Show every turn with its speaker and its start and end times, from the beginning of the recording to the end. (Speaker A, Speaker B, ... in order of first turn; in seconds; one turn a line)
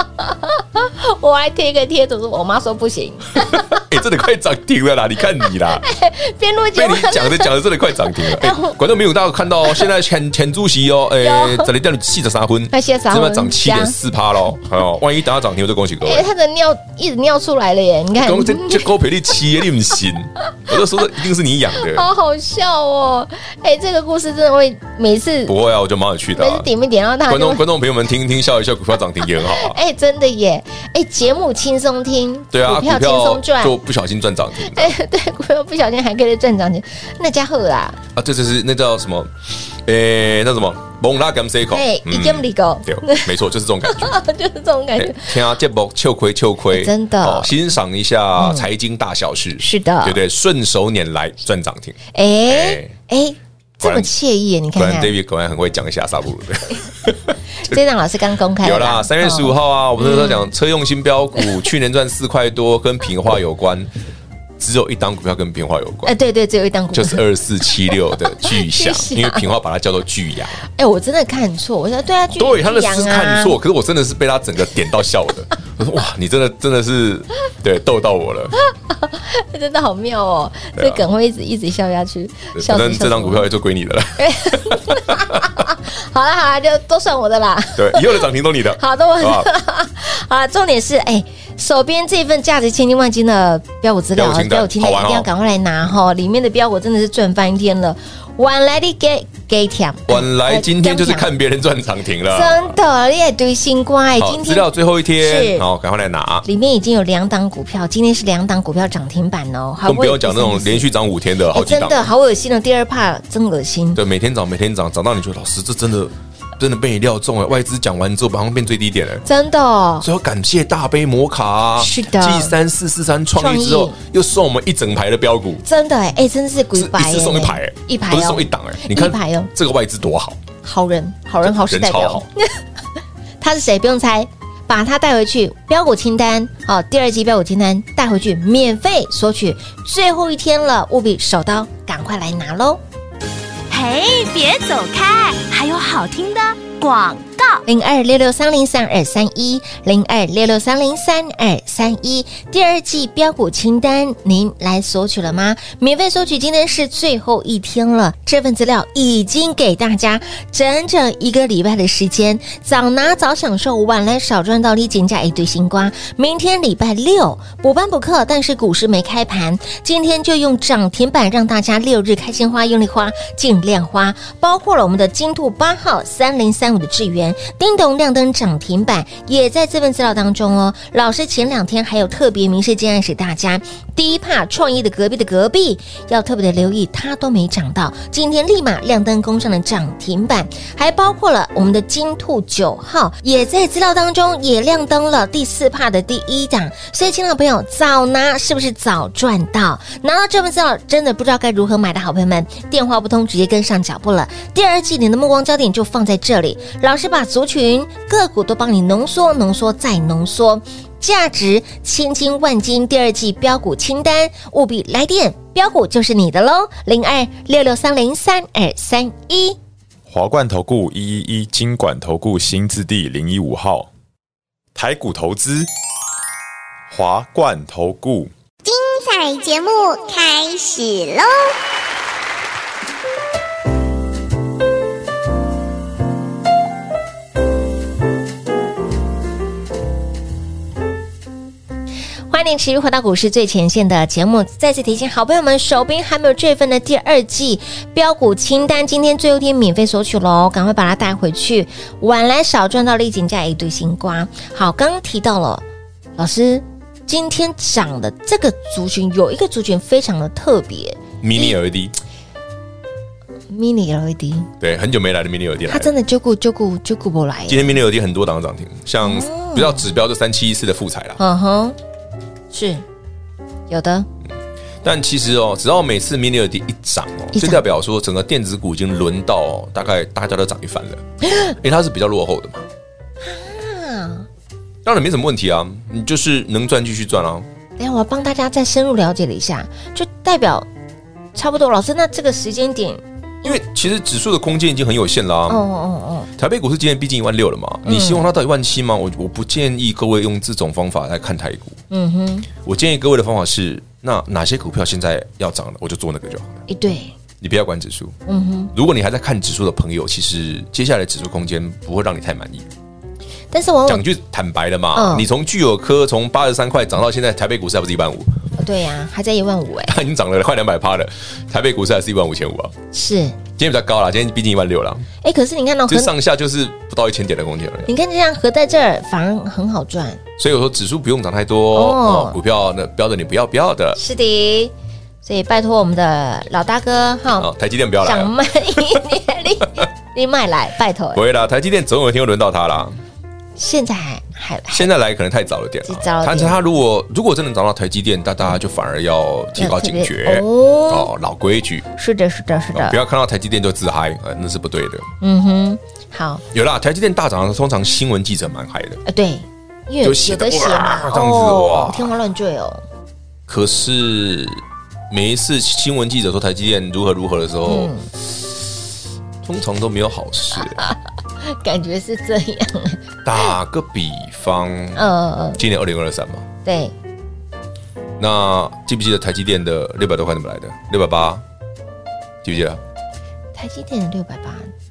Speaker A: 0.2-3.8
Speaker B: 3.4-5.9
Speaker A: 5.7-8.8
Speaker B: 6.7-16.3
Speaker A: 11.2-11.7
Speaker A: 12.7-13.9
Speaker A: 16.0-18.9
Speaker B: 18.2-22.1
Speaker A: 21.7-25.5
Speaker B: 25.4-26.7
Speaker A: 26.4-27.6
Speaker B: 27.3-29.8
Speaker A: 29.2-33.8
Speaker B: 32.5-34.9
Speaker A: 34.6-38.0
Speaker B: 38.1-39.3
Speaker B: 39.8-44.2
Speaker A: 41.7-43.3
Speaker A: 43.9-45.4
Speaker B: 45.0-52.9
Speaker A: 46.7-47.5
Speaker A: 48.4-48.7
Speaker A: 49.6-50.2
Speaker A: 52.1-55.1
Speaker B: 53.8-54.1
Speaker B: 54.8-57.8
Speaker A: 57.6-60.5
Speaker B: 58.6-63.9
Speaker B: 64.6-66.1
Speaker A: 66.0-67.2
Speaker B: 66.9-70.6
Speaker A: 68.3-69.5
Speaker A: 70.6-73.6
Speaker B: 72.3-78.5
Speaker A: 78.7-83.5
Speaker B: 80.8-81.0
Speaker B: 82.5-85.6
Speaker A: 84.2-88.2
Speaker B: 87.8-89.5
Speaker A: 88.8-101.3
Speaker B: 94.1-95.3
Speaker B: 100.1-102.8
Speaker A: 102.3-105.6
Speaker B: 104.2-106.5
Speaker A: 106.5-110.9
Speaker B: 109.8-112.1
Speaker A: 111.5-114.0
Speaker B: 113.9-119.2
Speaker A: 119.2-120.1
Speaker B: 120.0-125.6
Speaker A: 121.8-122.5
Speaker A: 123.3-124.0
Speaker A: 125.6-129.5
Speaker B: 126.7-130.4
Speaker A: 130.6-132.5
Speaker B: 131.4-132.3
Speaker A: 133.4-142.8
Speaker C: 143.7-147.6
Speaker A: 147.7-219.6
Speaker D: 220.1-223.9
Speaker D: 224.7-225.7
Speaker D: 226.9-228.3
Speaker E: 228.6-231.5
Speaker A: 242.3-255.6
Speaker A: 256.2-261.6
Speaker B: 261.2-261.9
Speaker A: 263.5-264.5
Speaker B: 264.6-265.9
Speaker A: 265.7-267.8
Speaker B: 267.5-271.2
Speaker A: 269.0-269.9
Speaker A: 271.2-271.8
Speaker A: 272.5-272.8
Speaker A: 273.7-274.1
Speaker B: 274.8-282.6
Speaker A: 277.3-277.6
Speaker A: 283.2-284.3
Speaker B: 284.8-287.4
Speaker A: 287.8-290.7
Speaker A: 291.3-293.6
Speaker B: 293.4-295.6
Speaker A: 295.5-296.3
Speaker B: 296.4-301.8
Speaker A: 297.9-298.3
Speaker A: 301.9-302.5
Speaker B: 302.6-306.6
Speaker A: 306.7-307.1
Speaker B: 307.4-308.1
Speaker A: 308.3-308.7
Speaker B: 308.7-312.7
Speaker A: 313.5-314.0
Speaker B: 313.9-318.4
Speaker A: 314.9-315.3
Speaker A: 318.6-320.0
Speaker B: 319.8-322.7
Speaker A: 322.9-323.4
Speaker B: 323.6-325.1
Speaker A: 325.2-326.1
Speaker B: 325.9-327.9
Speaker A: 327.9-330.2
Speaker B: 330.4-334.0
Speaker A: 331.7-332.4
Speaker A: 333.9-334.7
Speaker A: 335.2-337.5
Speaker B: 337.4-339.0
Speaker A: 338.0-341.2
Speaker B: 341.1-343.0
Speaker A: 343.6-344.9
Speaker B: 344.7-351.9
Speaker A: 345.9-346.6
Speaker A: 349.6-351.1
Speaker A: 351.9-353.0
Speaker B: 352.7-355.1
Speaker A: 355.2-356.4
Speaker B: 356.5-359.0
Speaker A: 359.0-362.8
Speaker B: 360.0-362.1
Speaker B: 363.5-368.5
Speaker A: 367.6-368.1
Speaker B: 369.4-370.8
Speaker A: 370.6-373.0
Speaker B: 373.2-376.5
Speaker A: 374.9-375.6
Speaker A: 376.6-376.9
Speaker B: 378.2-381.4
Speaker B: 382.4-382.8
Speaker A: 383.5-384.7